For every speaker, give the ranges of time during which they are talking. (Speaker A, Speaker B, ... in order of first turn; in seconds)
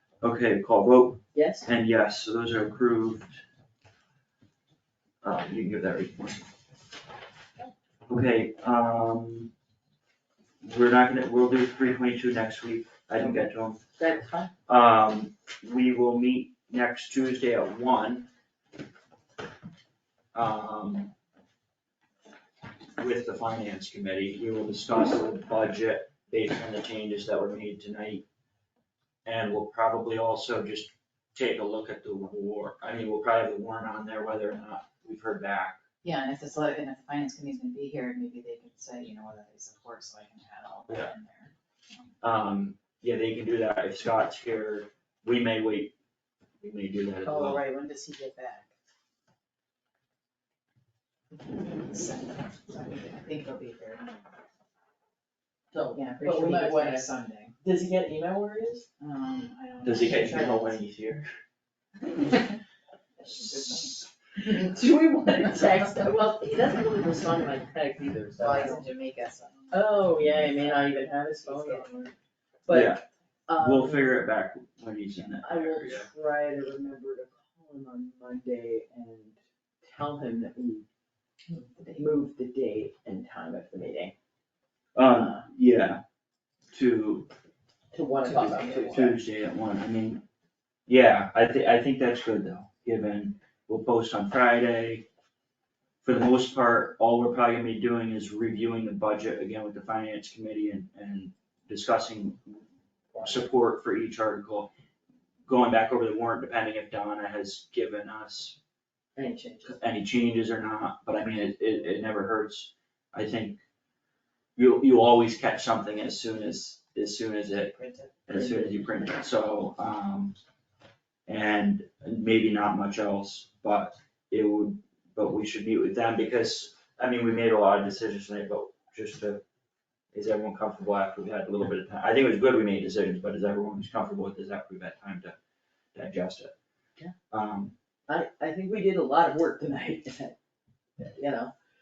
Speaker A: 0.2-3.4, 5.2-6.5, 8.1-9.5, 10.6-13.8, 14.7-18.3, 20.3-21.1, 23.0-28.2, 29.2-35.8, 42.2-45.9, 46.6-47.6, 59.8-61.3, 63.4-63.8, 72.7-73.0, 73.6-76.1, 84.9-86.0, 86.7-87.3, 88.5-90.2, 90.9-95.0, 96.0-102.6, 103.2-104.7, 105.5-108.6, 109.6-113.6, 114.5-117.8, 118.3-120.3, 121.3-129.4, 130.1-135.3, 135.9-136.5, 137.3-137.7
Speaker B: 1.3-1.7, 13.2-14.5, 55.7-57.1, 57.6-58.9, 64.4-68.8, 69.7-72.0, 72.7-74.3, 75.3-80.8, 81.9-84.1, 87.9-89.2, 109.2-109.8, 118.0-119.0, 138.1-140.3, 141.0-141.5
Speaker C: 36.0-41.5, 47.2-48.7, 51.5-54.1, 55.8-57.5, 59.0-60.8, 63.2-63.9, 68.4-72.1, 81.5-82.0, 88.2-88.5